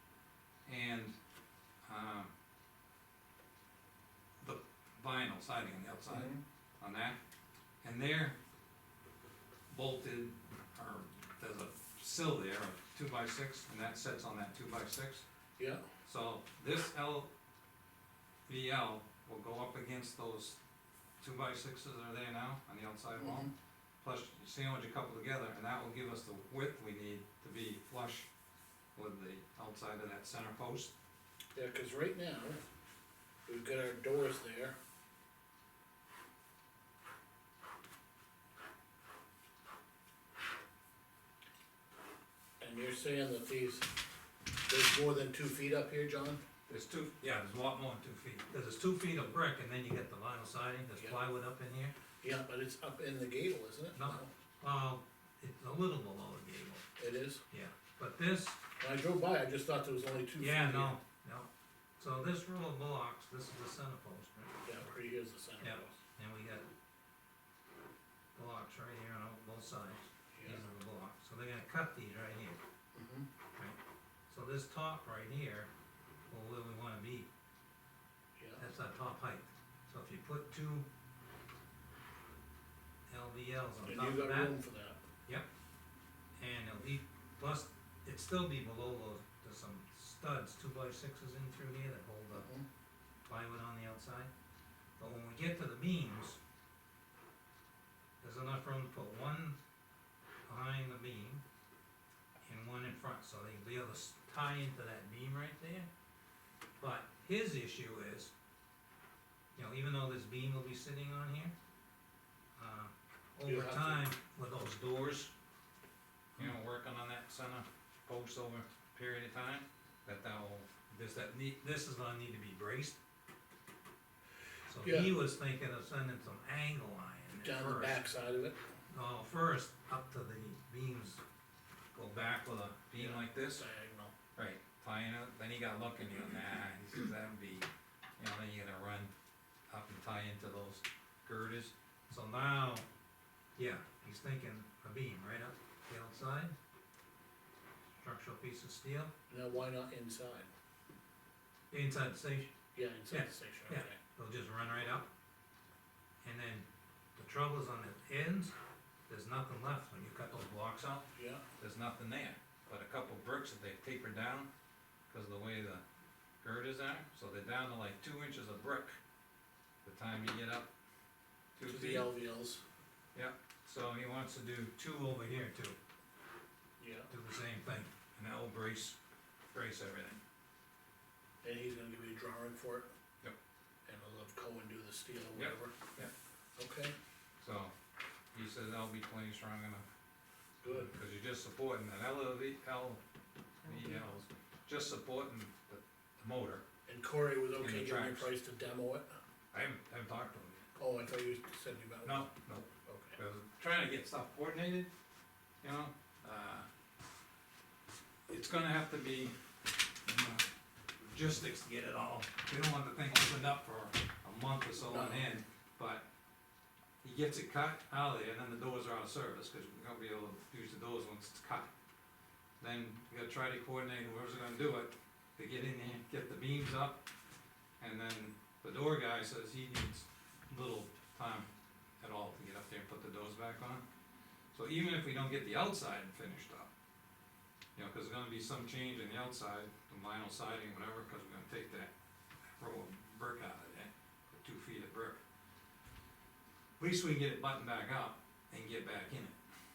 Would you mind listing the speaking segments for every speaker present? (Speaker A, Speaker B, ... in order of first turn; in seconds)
Speaker A: 0.7-1.1, 1.9-2.3, 4.4-7.2, 7.8-8.4, 9.7-15.2, 16.0-17.3, 18.5-20.6, 21.2-23.5, 24.0-28.3, 28.9-30.9, 46.7-51.9, 53.9-56.9, 57.5-58.6, 60.4-64.6, 65.6-66.7, 68.3-72.6, 74.3-75.7, 76.3-77.3, 78.6-80.8, 83.1-84.5, 86.4-92.5, 93.3-94.3, 95.0-96.4, 98.2-99.6, 100.5-101.4, 102.5-105.9, 106.8-108.3, 109.5-111.5, 112.6-115.3, 116.3-123.0, 124.7-128.1, 128.9-131.2, 131.9-133.6, 134.3-139.1, 139.7-142.8, 143.6-146.5, 148.0-149.1, 151.7-152.5, 153.1-155.1, 156.2-158.5, 159.1-164.5, 165.1-165.8, 166.4-169.0, 169.8-170.7, 171.6-172.1, 173.1-175.8, 177.1-179.0, 179.5-180.2, 185.3-186.1, 187.4-187.7, 188.3-189.8, 190.7-193.0, 193.6-196.6, 197.6-198.3, 199.5-200.7, 202.0-204.9, 205.6-206.7, 208.3-209.3, 210.1-210.5, 211.0-216.0, 217.0-221.7, 222.6-227.0, 227.8-233.8, 234.5-236.7, 237.8-241.9, 242.6-245.2, 246.8-249.4
Speaker B: 6.1-6.4, 23.2-23.5, 31.5-32.6, 33.5-34.8, 42.6-43.9, 44.7-46.4, 52.2-54.3, 57.0-57.4, 58.8-61.0, 64.6-66.0, 70.3-70.7, 72.9-73.3, 78.4-78.6, 83.8-85.0, 92.3-92.6, 113.4-114.0, 124.8-125.1, 127.4-128.6, 132.9-134.1, 149.3-150.5, 152.7-154.0, 161.1-161.4, 171.6-172.6, 176.8-177.1, 181.4-182.9, 183.8-185.7, 186.6-186.9, 190.6-190.9, 196.9-199.2, 200.8-202.3, 202.8-203.2, 214.8-215.3